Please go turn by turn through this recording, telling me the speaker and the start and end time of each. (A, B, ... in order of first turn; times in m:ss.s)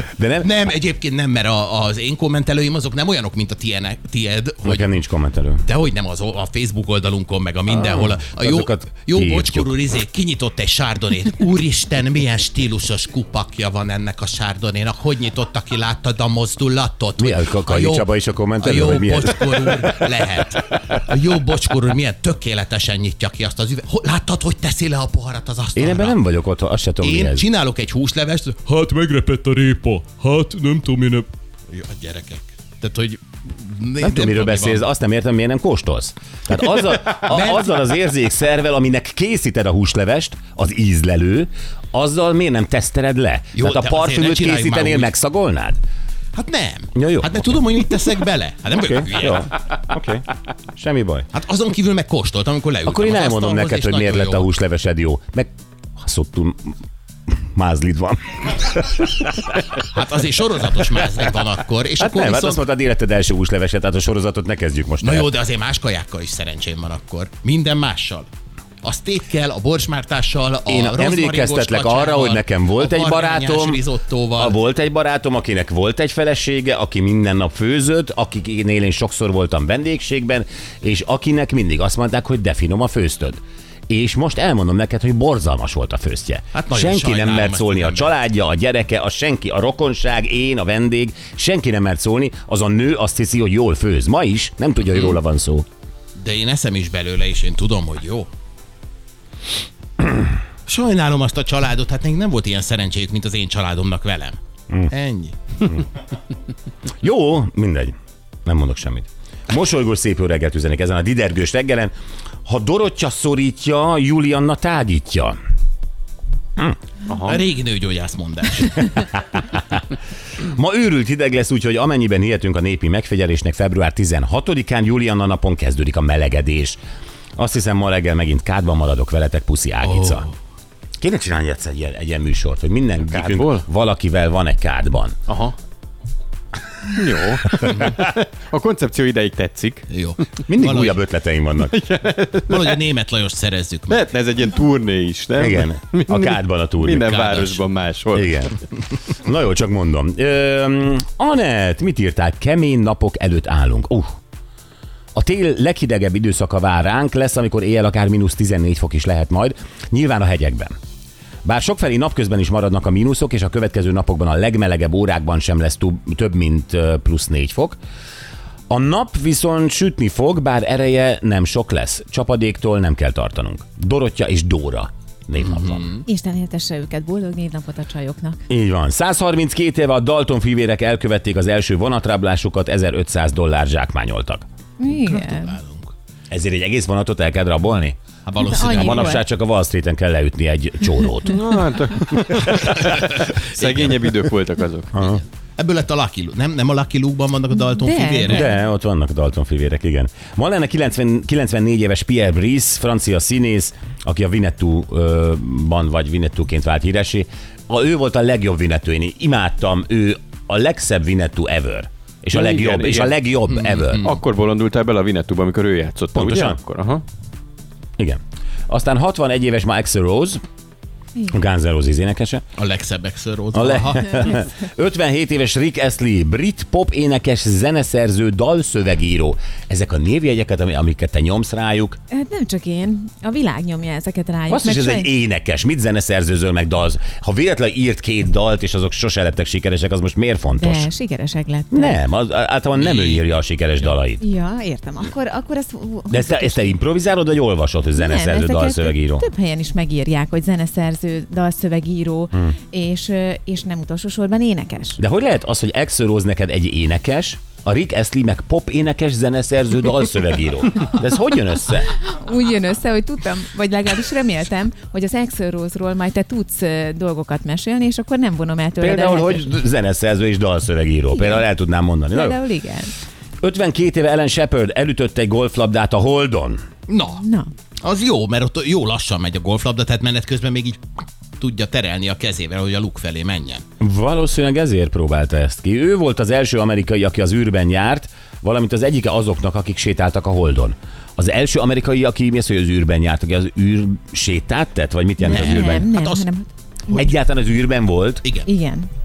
0:00.2-0:00.5 A
0:00.4-0:04.9 B
0:04.6-0:05.6 A
0:05.6-0:18.1 B
0:07.7-0:09.7 A
0:17.2-0:20.1 A
0:18.6-0:26.2 B
0:25.8-0:27.5 A
0:27.0-0:34.9 B
0:34.0-0:45.8 A
0:37.1-0:37.8 B
0:43.5-0:45.1 B
0:46.4-0:49.5 B
0:47.0-0:47.5 A
0:48.7-0:51.3 A
0:51.3-0:54.5 B
0:52.9-0:56.8 A
0:57.5-0:59.6 A
0:59.8-1:02.6 B
1:02.0-1:05.3 A
1:05.0-1:08.3 B
1:08.8-1:14.6 B
1:10.7-1:13.8 A
1:14.4-1:35.7 A
1:26.5-1:28.1 B
1:36.2-1:38.3 B
1:40.7-1:44.4 B
1:44.9-1:45.6 B
1:47.0-1:51.9 A
1:52.4-1:55.4 A
1:57.1-1:57.4 C
1:57.2-1:59.1 B
1:59.4-1:59.8 A
2:00.4-2:06.8 A
2:07.4-2:10.3 A
2:09.8-2:10.3 B
2:11.0-2:15.2 A
2:13.1-2:13.7 C
2:15.3-2:15.6 C
2:16.9-2:19.9 C
2:19.9-2:21.0 B
2:20.5-2:21.8 A
2:21.6-2:22.8 C
2:22.5-2:24.0 B
2:23.9-2:28.4 C
2:25.4-2:27.5 A
2:27.1-2:27.6 B
2:28.1-2:28.6 A
2:29.1-2:34.2 A
2:35.2-2:40.8 A
2:41.4-2:47.8 A
2:48.7-2:55.9 A
2:55.5-2:56.0 B
2:56.1-2:58.4 D
2:58.5-3:04.4 A
3:04.8-3:05.6 D
3:05.0-3:05.9 B
3:06.3-3:08.0 A
3:08.3-3:09.2 B
3:08.4-3:09.2 D
3:08.6-3:11.6 A
3:11.3-3:14.9 C
3:12.5-3:12.8 A
3:12.6-3:14.0 B
3:14.9-3:15.2 A
3:15.0-3:18.5 B
3:17.7-3:18.5 D
3:18.3-3:34.1 A
3:32.3-3:33.1 C
3:33.5-3:34.1 B
3:34.0-3:37.0 C
3:36.1-3:36.6 A
3:38.0-3:40.4 A
3:41.3-3:42.4 A
3:42.6-3:44.4 B
3:43.5-3:52.0 A
3:52.1-3:55.1 D
3:54.5-4:00.9 A
4:00.6-4:02.0 D
4:01.7-4:04.2 A
4:02.8-4:03.2 B
4:04.2-4:06.8 D
4:06.1-4:09.2 A
4:08.0-4:15.0 D
4:15.0-4:21.9 A
4:22.0-4:29.5 D
4:28.8-4:32.4 A
4:31.2-4:31.4 D
4:32.1-4:32.9 D
4:33.4-4:36.7 A
4:36.9-4:37.2 B
4:37.2-4:37.5 D
4:37.8-4:43.6 B
4:43.8-4:55.9 A
4:55.2-4:56.9 D
4:55.3-4:56.3 B
4:56.9-4:58.3 A
4:58.2-4:58.5 B
4:58.5-4:58.9 D